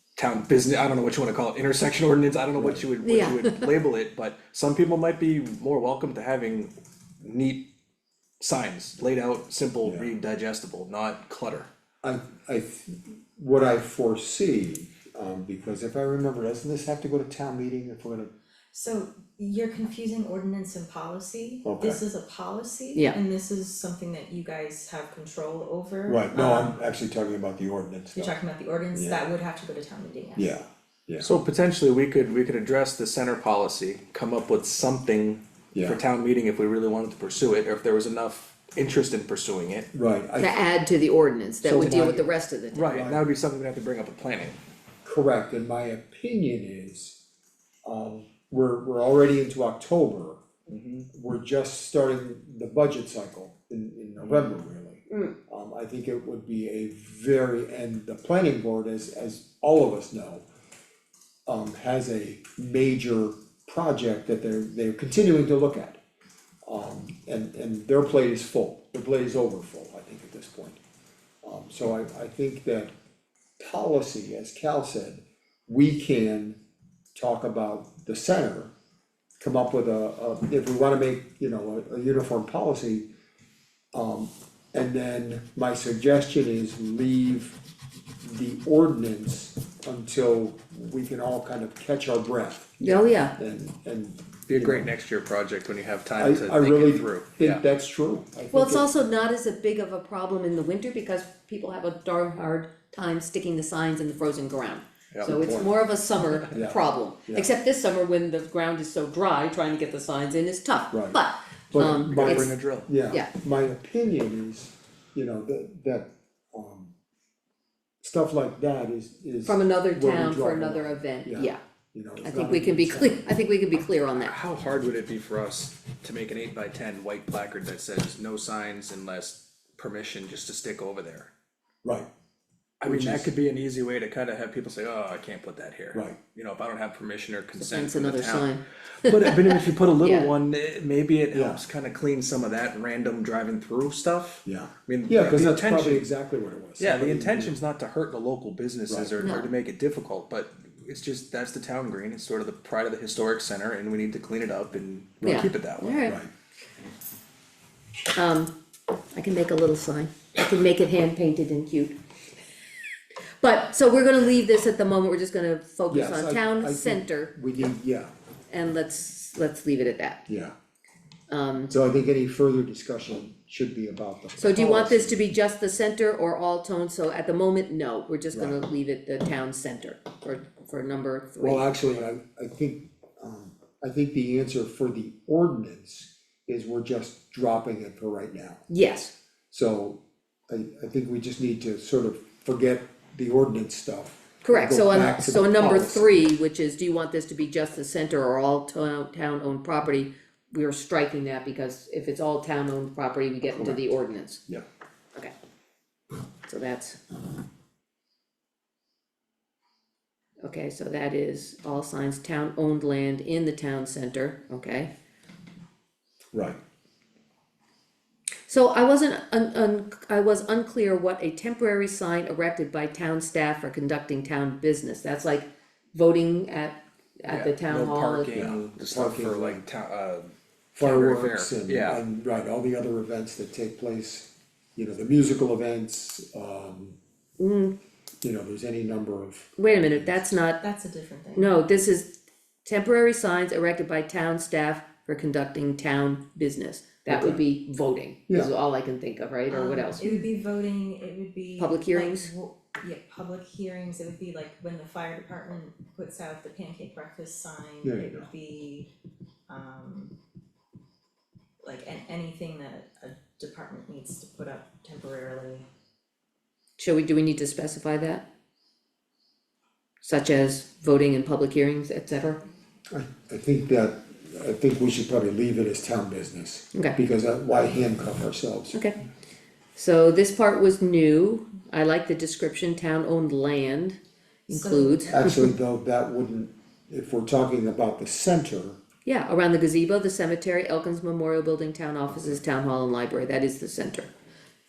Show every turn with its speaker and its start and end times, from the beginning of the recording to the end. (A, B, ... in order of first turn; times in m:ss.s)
0:00.2-0:07.7 A
0:02.6-0:02.9 B
0:03.0-0:03.7 C
0:08.4-0:11.7 A
0:09.8-0:10.1 B
0:12.0-0:18.3 B
0:18.7-0:26.8 D
0:21.6-0:22.0 B
0:26.1-0:28.3 B
0:28.1-0:30.6 D
0:28.9-0:29.3 B
0:30.4-0:31.3 B
0:31.2-0:39.9 A
0:35.7-0:36.0 B
0:39.9-0:40.6 B
0:40.4-0:43.0 C
0:41.6-0:42.1 A
0:41.7-0:42.3 B
0:42.7-0:44.6 A
0:42.9-0:43.2 B
0:45.0-0:47.2 B
0:47.8-0:50.4 B
0:50.7-0:51.1 A
0:51.1-1:00.4 B
0:54.2-0:54.5 A
0:55.1-0:55.3 C
1:01.5-1:06.0 B
1:06.6-1:10.8 B
1:11.4-1:12.9 B
1:13.6-1:16.6 B
1:17.1-1:18.7 B
1:19.4-1:23.1 B
1:23.9-1:27.6 B
1:28.2-1:34.9 B
1:32.8-1:33.4 C
1:34.5-1:37.6 A
1:36.2-1:39.0 B
1:38.5-1:52.5 C
1:45.2-1:45.8 B
1:46.5-1:47.5 B
1:50.9-1:51.2 B
1:51.7-1:56.9 B
1:51.8-1:52.9 A
1:58.0-2:03.3 B
1:59.4-2:01.6 C
2:02.2-2:04.3 C
2:04.1-2:11.3 A
2:12.8-2:18.5 A
2:12.8-2:13.3 B
2:17.6-2:20.3 C
2:19.0-2:26.0 A
2:21.3-2:21.6 B
2:24.4-2:27.6 B
2:26.8-2:36.0 A
2:28.9-2:29.2 B
2:29.2-2:29.5 C
2:35.2-2:35.5 B
2:35.2-2:36.2 C
2:38.1-2:38.5 C
2:39.1-2:42.0 C
2:43.4-2:47.4 C
2:45.9-2:48.1 B
2:48.5-2:50.2 C
2:50.3-2:50.5 B
2:51.3-2:51.7 C
2:51.7-2:55.3 B
2:54.4-3:01.7 C
2:58.3-2:58.6 B
3:01.4-3:08.6 B
3:08.7-3:09.1 C
3:09.5-3:16.3 B
3:14.4-3:24.4 C
3:23.5-3:23.8 B
3:26.4-3:27.0 C
3:30.4-3:34.9 C
3:36.3-3:36.6 B
3:38.5-3:48.4 C
3:47.3-3:52.0 A
3:48.3-3:49.6 B
3:50.7-3:57.0 B
3:57.4-3:57.8 C
3:58.2-4:00.3 B
3:59.6-4:00.6 C
4:00.6-4:01.5 D
4:01.3-4:02.1 C
4:02.6-4:10.2 C
4:07.1-4:07.4 B
4:09.5-4:18.9 D
4:11.6-4:12.3 C
4:17.8-4:18.3 B
4:19.5-4:20.1 D
4:21.6-4:25.6 D
4:26.8-4:28.2 C
4:30.0-4:32.4 C
4:32.9-4:38.8 B
4:39.8-4:45.5 C
4:44.5-4:45.1 D
4:45.1-4:48.8 B
4:49.0-4:54.1 C